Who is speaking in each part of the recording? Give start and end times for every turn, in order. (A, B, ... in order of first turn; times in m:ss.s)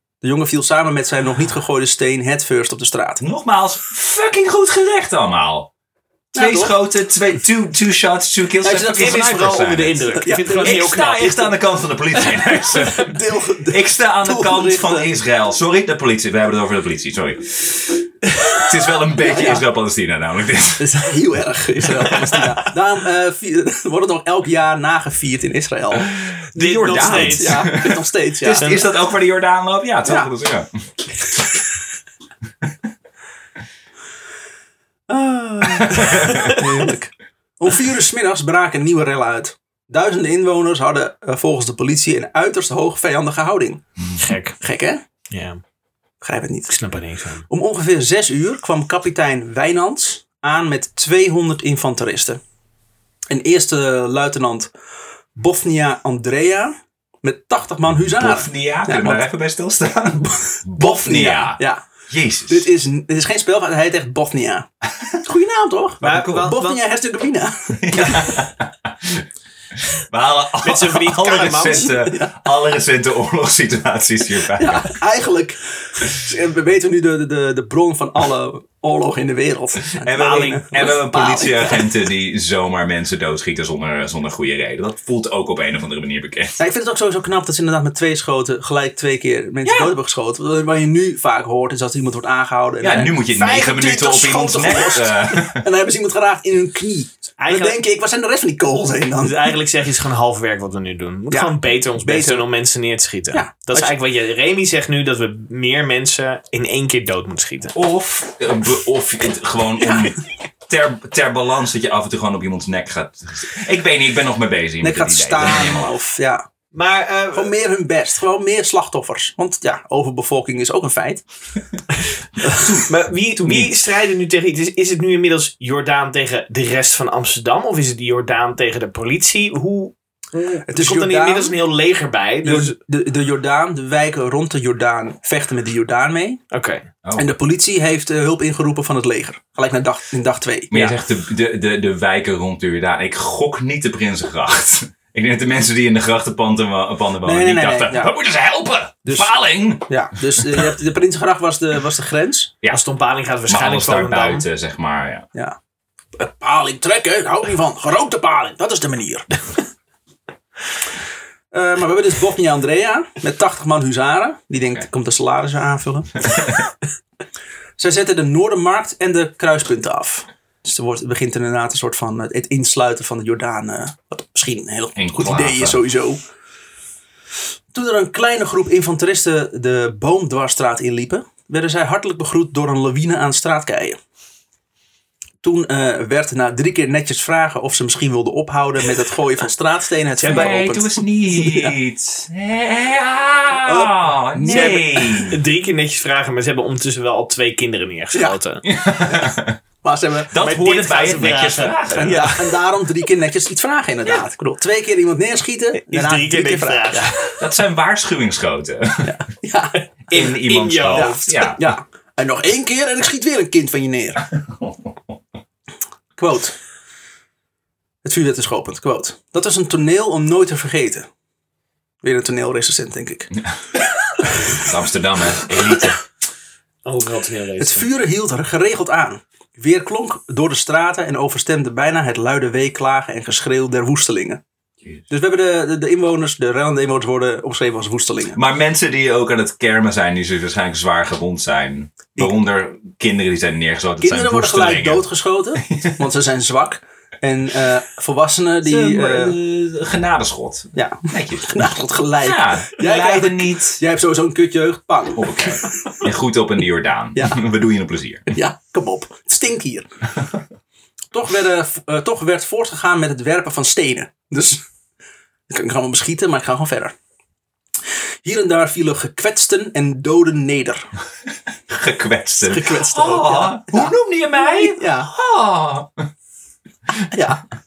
0:00.2-0:03.2 A
0:03.2-0:05.7 B
0:06.3-0:06.7 A
0:06.3-0:21.0 B
0:08.6-0:09.4 A
0:08.8-0:11.5 C
0:10.2-0:11.0 A
0:12.7-0:15.1 A
0:19.2-0:19.6 A
0:20.8-0:26.1 A
0:26.0-0:31.6 B
0:26.5-0:27.8 C
0:27.0-0:28.8 A
0:30.0-0:30.3 A
0:35.1-0:43.8 A
0:35.6-0:36.6 B
0:36.1-0:36.6 C
0:44.2-0:44.6 C
0:44.6-0:45.0 A
0:45.3-0:45.6 C
0:46.2-0:46.7 A
0:46.7-0:47.4 C
0:47.5-0:52.4 A
0:53.3-0:54.7 A
0:55.4-0:59.2 A
0:58.2-1:02.7 B
1:00.7-1:01.8 A
1:02.5-1:04.7 A
1:05.2-1:08.4 A
1:06.0-1:06.8 C
1:06.0-1:06.5 B
1:07.8-1:09.2 B
1:09.8-1:15.0 B
1:10.6-1:11.9 C
1:11.9-1:12.4 A
1:14.6-1:21.8 A
1:19.9-1:26.6 B
1:20.2-1:20.7 C
1:26.6-1:39.6 A
1:29.6-1:29.9 B
1:32.8-1:35.6 B
1:37.4-1:37.8 C
1:39.2-1:47.7 C
1:41.3-1:42.4 A
1:43.3-1:43.9 A
1:47.7-1:56.0 B
1:49.8-1:50.1 A
1:54.8-1:56.4 A
1:56.7-1:57.5 C
1:57.3-2:01.2 A
2:02.5-2:03.7 B
2:02.9-2:12.7 C
2:10.7-2:11.6 A
2:12.4-2:16.4 A
2:16.5-2:16.9 C
2:17.0-2:17.3 B
2:17.2-2:21.0 A
2:20.7-2:30.7 B
2:27.2-2:28.1 A
2:29.0-2:32.5 A
2:32.7-2:34.5 C
2:33.5-2:35.3 B
2:36.2-2:39.3 A
2:41.5-2:46.4 A
2:46.3-2:46.6 B
2:47.8-2:56.2 A
2:55.0-2:55.8 B
2:57.7-3:04.0 A
3:05.4-3:11.7 A
3:10.2-3:15.4 B
3:13.6-3:15.3 A
3:14.5-3:18.6 C
3:18.6-3:19.6 B
3:19.8-3:20.3 A
3:20.3-3:22.4 B
3:20.4-3:22.5 C
3:22.0-3:27.1 A
3:25.7-3:27.4 C
3:27.4-3:29.2 B
3:29.0-3:29.8 A
3:30.1-3:31.5 C
3:30.1-3:31.6 B
3:30.9-3:34.2 A
3:34.3-3:35.0 B
3:36.2-3:36.5 A
3:38.0-3:41.0 A
3:42.0-3:43.3 A
3:44.4-3:46.0 B
3:46.8-3:47.9 C
3:47.6-3:54.4 A
3:55.1-3:58.4 A
3:58.3-4:05.0 B
4:04.0-4:09.4 A
4:05.7-4:05.9 B
4:08.6-4:11.6 B
4:10.7-4:15.9 A
4:12.2-4:13.8 B
4:15.1-4:18.3 B
4:17.1-4:17.4 A
4:18.3-4:19.9 A
4:21.1-4:24.6 A
4:25.5-4:26.9 A
4:28.2-4:30.8 A
4:31.7-4:36.1 B
4:32.4-4:33.9 A
4:34.5-4:35.1 A
4:37.1-4:37.4 A